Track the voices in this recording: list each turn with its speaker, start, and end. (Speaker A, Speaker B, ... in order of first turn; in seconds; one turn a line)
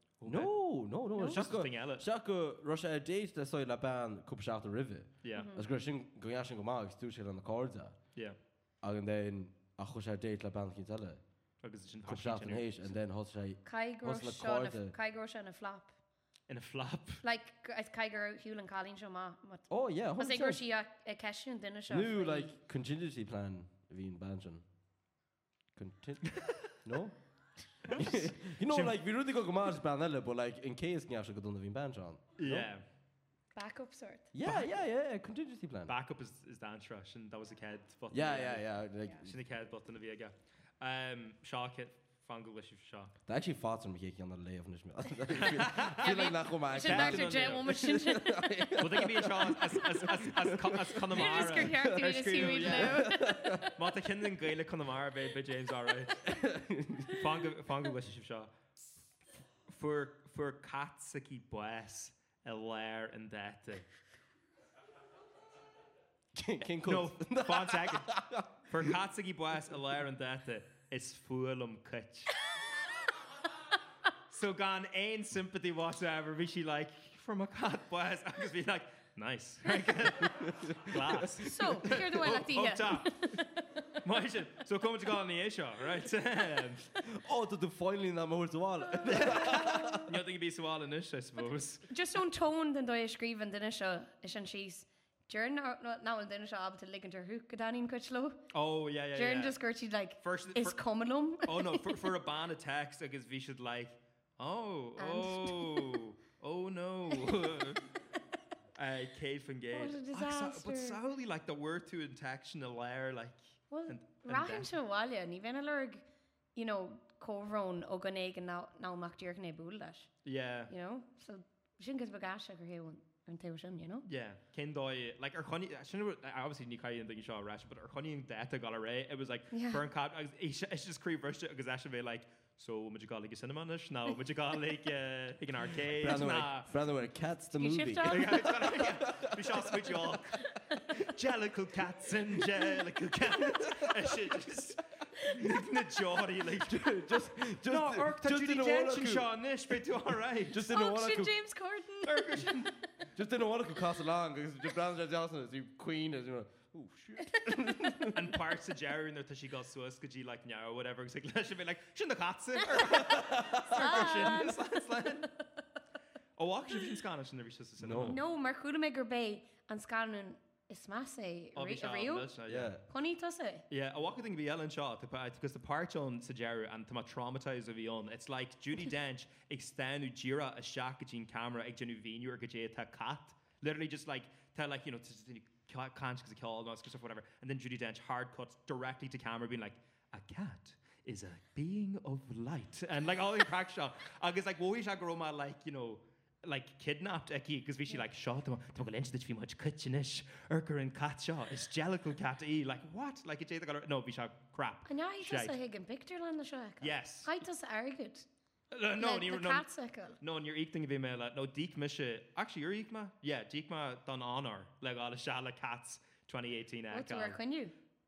Speaker A: 0.2-0.5
Speaker B: 0.2-8.0
Speaker A: 1.2-2.0
Speaker A: 5.2-5.5
Speaker C: 5.3-5.6
Speaker B: 8.8-11.2
Speaker A: 11.6-12.9
Speaker B: 12.1-14.9
Speaker C: 13.6-15.9
Speaker A: 16.5-17.2
Speaker C: 17.2-22.5
Speaker B: 19.7-20.6
Speaker B: 21.9-24.6
Speaker B: 25.8-27.1
Speaker B: 27.9-32.7
Speaker A: 28.6-28.9
Speaker A: 32.4-32.8
Speaker C: 33.5-34.3
Speaker B: 34.3-35.9
Speaker A: 34.4-34.7
Speaker A: 35.9-38.7
Speaker B: 38.1-39.3
Speaker A: 39.2-43.1
Speaker B: 43.3-53.7
Speaker A: 45.3-46.2
Speaker C: 46.0-49.0
Speaker A: 46.8-47.7
Speaker A: 48.8-53.1
Speaker C: 49.9-50.2
Speaker C: 51.1-53.8
Speaker A: 53.7-56.2
Speaker B: 56.2-57.2
Speaker A: 57.1-58.5
Speaker A: 59.7-63.9
Speaker B: 66.3-68.9
Speaker A: 66.8-72.3
Speaker A: 74.3-86.8
Speaker B: 80.2-81.4
Speaker C: 81.4-83.9
Speaker B: 87.0-90.2
Speaker A: 89.0-91.9
Speaker C: 89.2-90.1
Speaker C: 91.9-98.4
Speaker A: 98.5-99.6
Speaker C: 99.2-102.1
Speaker A: 100.2-100.8
Speaker A: 101.4-107.8
Speaker C: 105.0-106.0
Speaker A: 108.8-114.7
Speaker C: 109.7-111.0
Speaker C: 113.7-116.0
Speaker C: 116.5-120.1
Speaker A: 120.2-120.7
Speaker C: 120.7-124.0
Speaker A: 124.1-136.7
Speaker C: 129.5-129.8
Speaker B: 135.8-140.0
Speaker C: 137.5-138.8
Speaker A: 138.1-146.8
Speaker C: 140.4-141.1
Speaker B: 143.3-144.4
Speaker C: 145.1-145.4
Speaker B: 146.6-149.8
Speaker A: 147.6-150.7
Speaker B: 150.4-151.4
Speaker C: 150.6-152.7
Speaker A: 152.0-152.7
Speaker B: 153.1-158.4
Speaker C: 157.3-157.5
Speaker A: 158.1-165.3
Speaker C: 162.6-163.1
Speaker B: 162.9-164.3
Speaker C: 163.7-165.2
Speaker A: 166.4-168.2
Speaker B: 167.8-168.2
Speaker C: 168.0-172.3
Speaker A: 171.6-172.8
Speaker B: 172.4-172.8
Speaker C: 172.9-173.7
Speaker A: 173.7-205.6
Speaker C: 204.8-208.3
Speaker A: 206.8-207.3
Speaker A: 208.7-209.6
Speaker C: 209.0-210.2
Speaker A: 210.2-217.4
Speaker C: 216.9-217.7